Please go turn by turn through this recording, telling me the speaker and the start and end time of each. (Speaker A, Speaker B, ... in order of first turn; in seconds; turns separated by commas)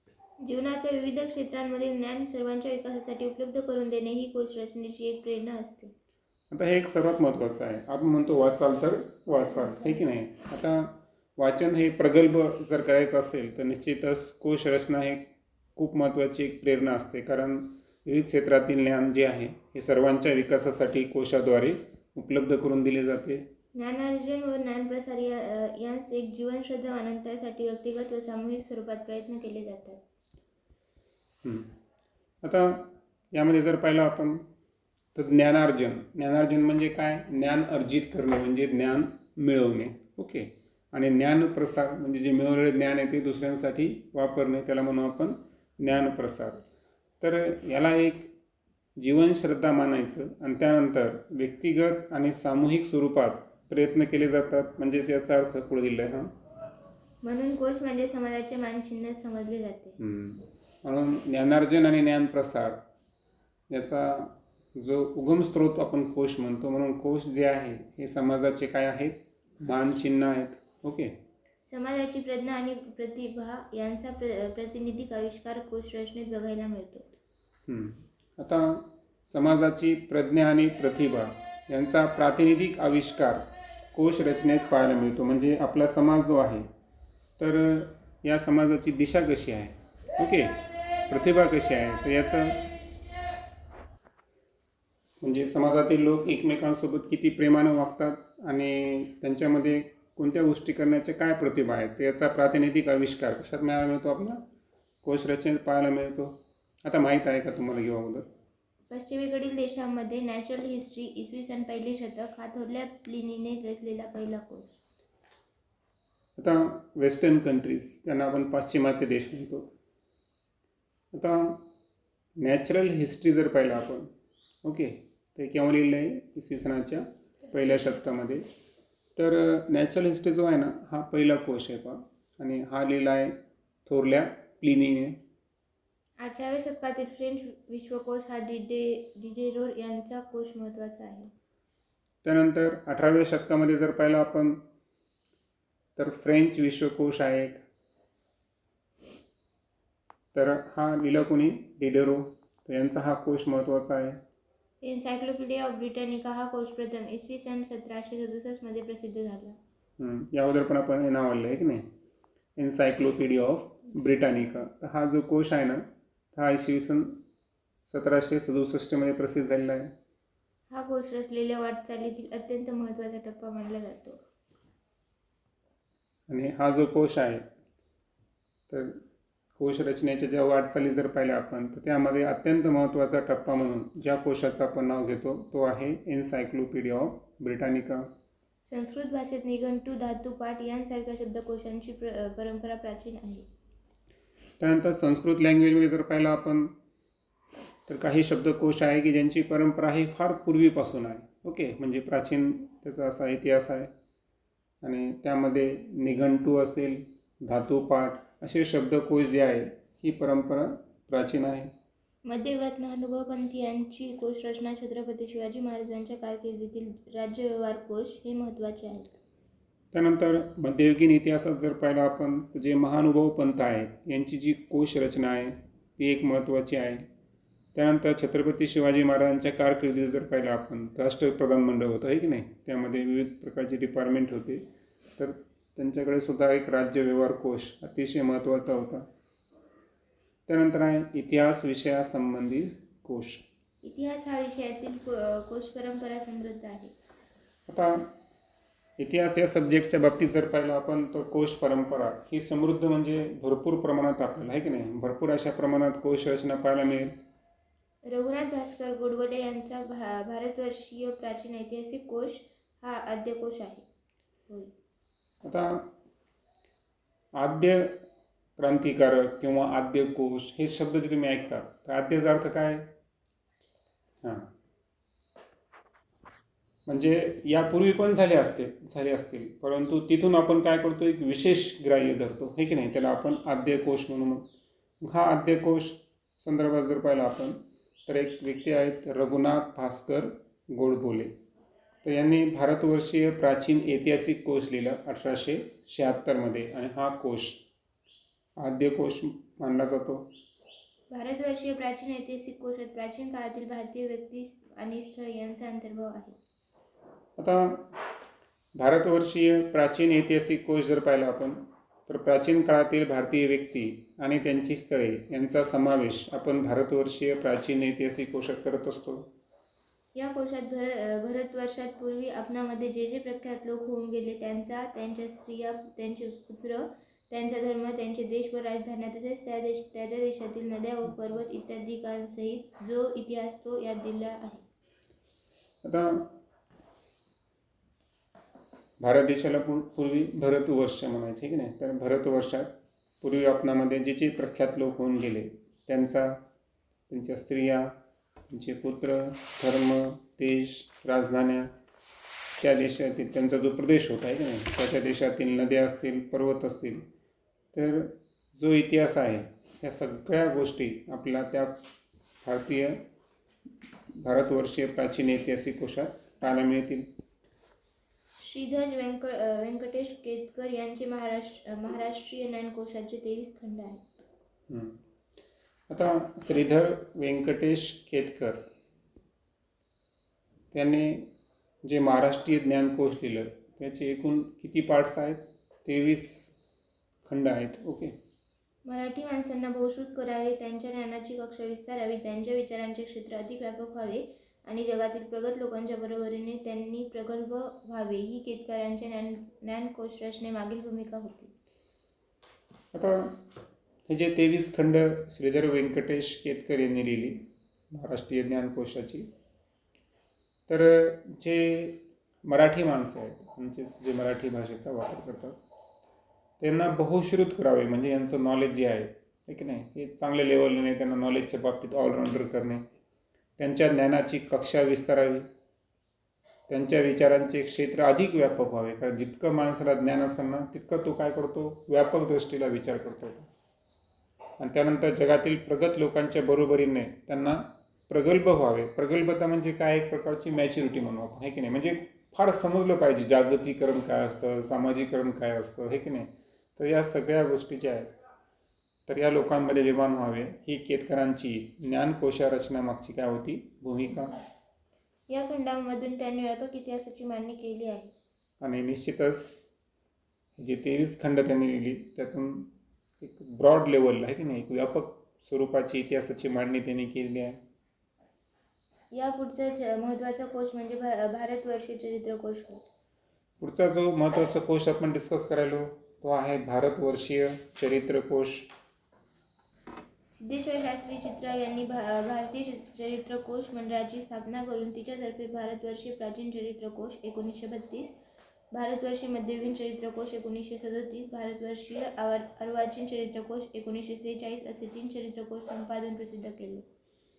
Speaker A: 0.4-5.9, Speaker B: 6.5-23.4, Speaker A: 23.7-30.0, Speaker B: 31.4-31.7, Speaker B: 32.4-34.5, Speaker B: 35.1-46.6, Speaker B: 47.2-48.3, Speaker B: 49.0-56.3, Speaker A: 57.2-60.0, Speaker B: 60.0-62.8, Speaker B: 63.7-71.2, Speaker A: 71.6-77.1, Speaker B: 77.7-86.7, Speaker B: 87.4-90.5, Speaker B: 91.1-92.7, Speaker B: 95.2-104.4, Speaker B: 105.0-108.2, Speaker A: 108.9-114.8, Speaker B: 116.4-119.7, Speaker B: 121.1-121.6, Speaker B: 122.4-124.1, Speaker B: 124.6-128.5, Speaker B: 129.2-135.2, Speaker A: 136.2-141.3, Speaker B: 142.2-144.6, Speaker B: 145.9-147.6, Speaker B: 150.3-154.2, Speaker A: 154.8-159.6, Speaker B: 160.0-161.9, Speaker B: 162.6-167.2, Speaker B: 167.9-169.9, Speaker A: 170.7-174.2, Speaker B: 176.3-177.5, Speaker B: 178.7-179.0, Speaker B: 179.6-188.1, Speaker A: 188.6-193.5, Speaker B: 194.6-196.7, Speaker B: 197.9-203.9, Speaker B: 204.8-211.7, Speaker A: 212.2-219.2, Speaker B: 219.9-227.1, Speaker B: 227.7-234.7, Speaker B: 235.2-239.1, Speaker B: 240.5-243.4, Speaker A: 243.8-246.9, Speaker B: 247.7-248.1, Speaker B: 249.0-257.1, Speaker A: 258.1-263.8, Speaker B: 265.4-265.9, Speaker B: 267.4-268.0, Speaker B: 268.6-272.9, Speaker B: 274.2-274.5, Speaker B: 276.9-284.4, Speaker B: 285.0-291.3, Speaker B: 292.0-297.6, Speaker B: 298.6-300.3, Speaker A: 301.1-306.4, Speaker B: 307.4-307.9, Speaker B: 308.8-319.3, Speaker A: 320.1-334.6, Speaker B: 335.8-336.3, Speaker B: 339.0-346.4, Speaker B: 347.1-347.9, Speaker B: 348.5-351.7, Speaker B: 352.6-357.1, Speaker B: 357.7-361.8, Speaker B: 362.4-363.0, Speaker B: 364.1-367.1, Speaker A: 368.4-374.2, Speaker B: 374.7-375.0, Speaker B: 375.9-378.7, Speaker B: 380.7-381.3, Speaker B: 381.8-386.6, Speaker B: 387.2-388.1, Speaker A: 388.8-401.5, Speaker B: 402.9-403.4, Speaker B: 404.1-409.3, Speaker B: 410.7-415.6, Speaker B: 416.6-422.8, Speaker B: 423.6-425.5, Speaker B: 426.7-433.4, Speaker B: 434.6-448.1, Speaker B: 449.1-454.4, Speaker A: 455.3-458.1, Speaker B: 458.6-459.6, Speaker B: 460.6-462.7, Speaker B: 463.2-467.6, Speaker A: 469.1-472.9, Speaker B: 473.6-478.7, Speaker A: 480.3-488.2, Speaker A: 488.7-496.8